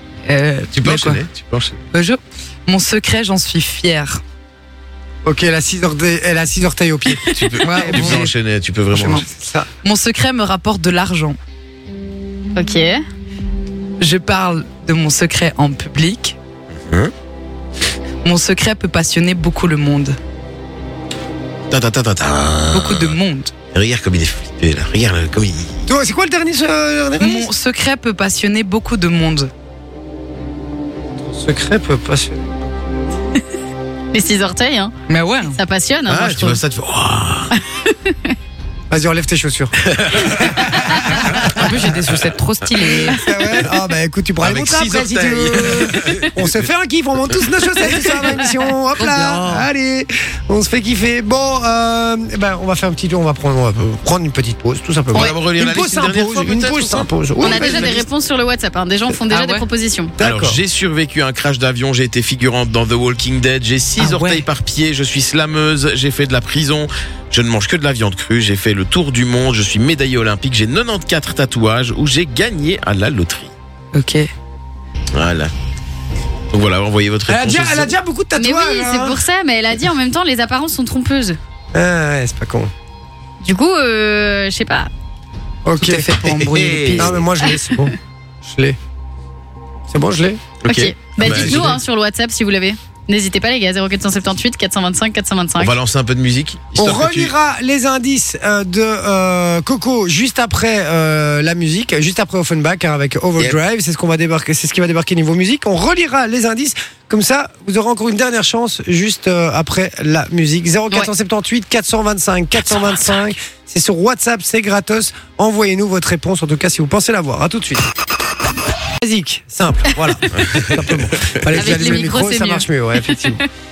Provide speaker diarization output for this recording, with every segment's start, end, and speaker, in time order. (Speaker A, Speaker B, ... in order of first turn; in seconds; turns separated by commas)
Speaker A: 0.2-1.2, Speaker B: 0.7-1.8, Speaker A: 1.9-4.2, Speaker C: 5.2-8.3, Speaker B: 7.2-9.3, Speaker A: 7.6-8.3, Speaker A: 8.9-9.3, Speaker C: 9.1-9.7, Speaker A: 9.8-11.4, Speaker D: 12.5-13.0, Speaker A: 14.0-16.4, Speaker B: 16.8-17.1, Speaker A: 18.2-20.2, Speaker B: 21.7-23.1, Speaker A: 22.7-23.5, Speaker B: 23.7-25.8, Speaker C: 25.9-27.5, Speaker A: 27.2-29.5, Speaker C: 31.1-33.4, Speaker D: 34.1-34.9, Speaker A: 35.1-35.6, Speaker D: 35.5-36.6, Speaker B: 36.1-37.6, Speaker D: 37.5-38.3, Speaker C: 38.9-41.9, Speaker B: 39.8-41.5, Speaker A: 41.3-43.2, Speaker C: 43.0-58.0, Speaker B: 44.4-46.5, Speaker A: 49.0-49.7, Speaker B: 55.1-58.0, Speaker D: 57.4-60.1, Speaker A: 59.3-59.6, Speaker C: 60.2-60.6, Speaker B: 60.2-73.5, Speaker A: 64.0-64.4, Speaker A: 73.9-74.3, Speaker B: 75.1-75.5, Speaker B: 76.5-77.9, Speaker C: 77.3-79.2, Speaker D: 78.3-81.4, Speaker C: 81.7-82.7, Speaker D: 83.4-84.9, Speaker C: 85.6-86.1, Speaker A: 85.8-87.1, Speaker B: 86.2-87.2, Speaker C: 87.0-88.8, Speaker C: 89.9-90.4, Speaker B: 90.6-91.8, Speaker D: 90.7-95.7, Speaker C: 91.2-91.8, Speaker B: 95.6-97.3, Speaker C: 96.8-117.9, Speaker C: 119.0-123.4, Speaker B: 120.4-121.5, Speaker D: 121.5-123.4